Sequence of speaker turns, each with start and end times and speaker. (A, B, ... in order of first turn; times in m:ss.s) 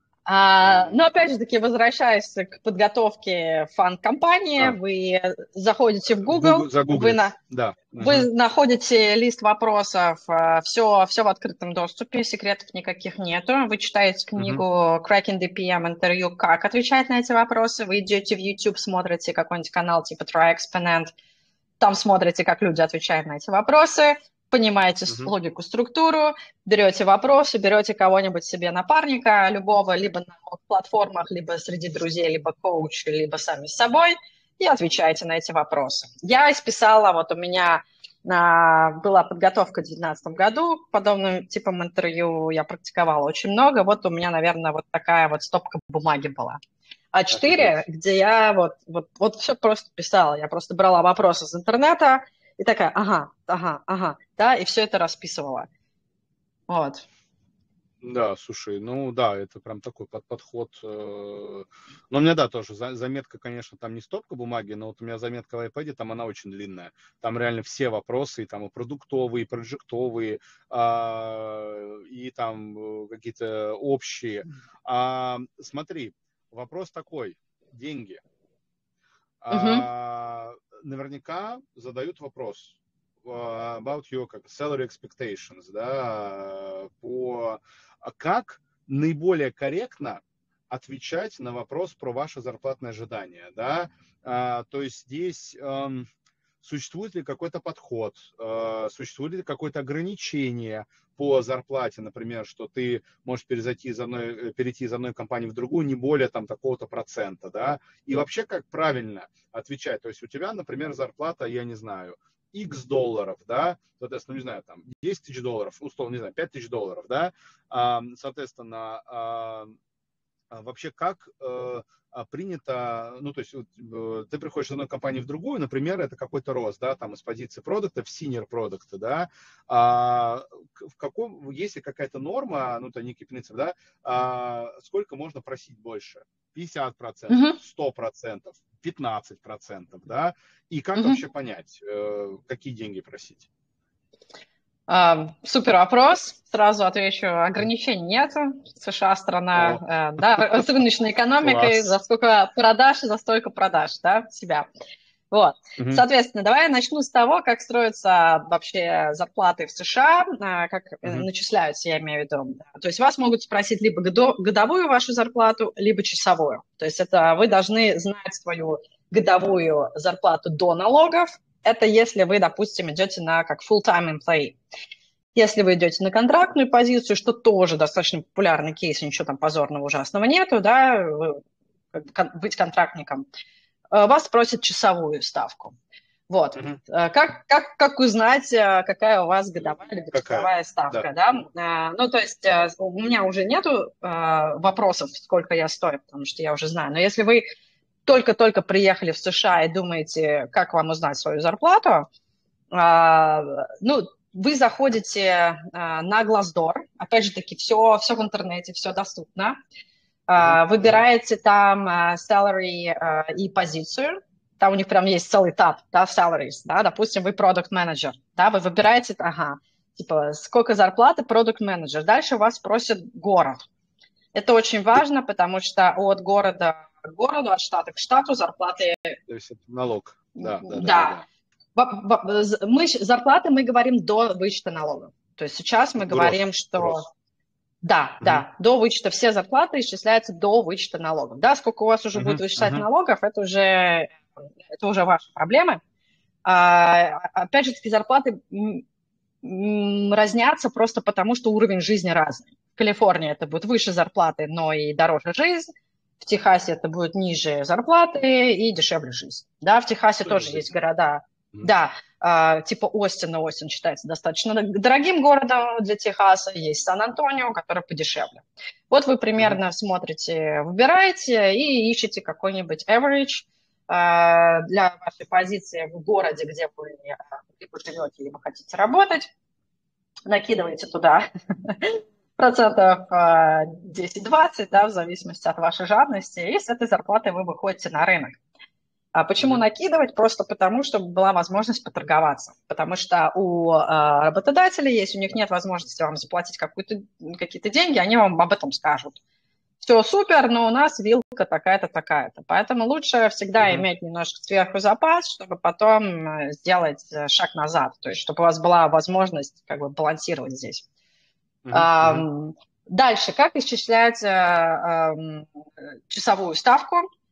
0:00.2-0:07.4 A
0:00.6-0:01.0 B
0:06.3-0:08.3 B
0:08.0-0:21.1 A
0:14.4-0:14.6 B
0:21.8-0:46.6 A
0:25.1-0:25.3 B
0:47.1-0:55.7 A
0:47.3-0:47.8 B
0:56.7-0:57.0 A
0:58.0-1:18.2 B
1:19.4-1:36.1 B
1:19.5-1:19.8 A
1:36.6-1:59.7 B
2:00.5-2:23.5 B
2:17.3-2:17.6 A
2:24.9-2:34.7 A
2:29.5-2:29.8 B
2:31.4-2:31.9 B
2:35.3-2:54.6 A
2:35.8-2:36.0 B
2:55.3-3:01.4 A
3:01.9-3:03.2 A
3:03.9-3:05.7 A
3:06.3-3:17.5 A
3:10.1-3:11.0 B
3:18.0-3:22.0 A
3:22.7-3:29.6 A
3:30.3-3:43.6 A
3:30.4-3:31.0 B
3:44.3-3:49.2 A
3:49.3-3:51.2 B
3:50.4-3:51.2 A
3:51.8-3:57.1 A
3:56.0-3:57.0 B
3:57.8-4:05.8 A
4:02.1-4:02.8 B
4:06.4-4:08.8 A
4:09.4-4:15.7 A
4:16.2-4:39.3 A
4:20.2-4:20.7 B
4:40.3-4:48.4 A
4:49.1-4:59.2 A
4:59.8-5:10.8 A
5:03.6-5:03.8 B
5:11.6-5:12.2 B
5:11.7-5:17.0 A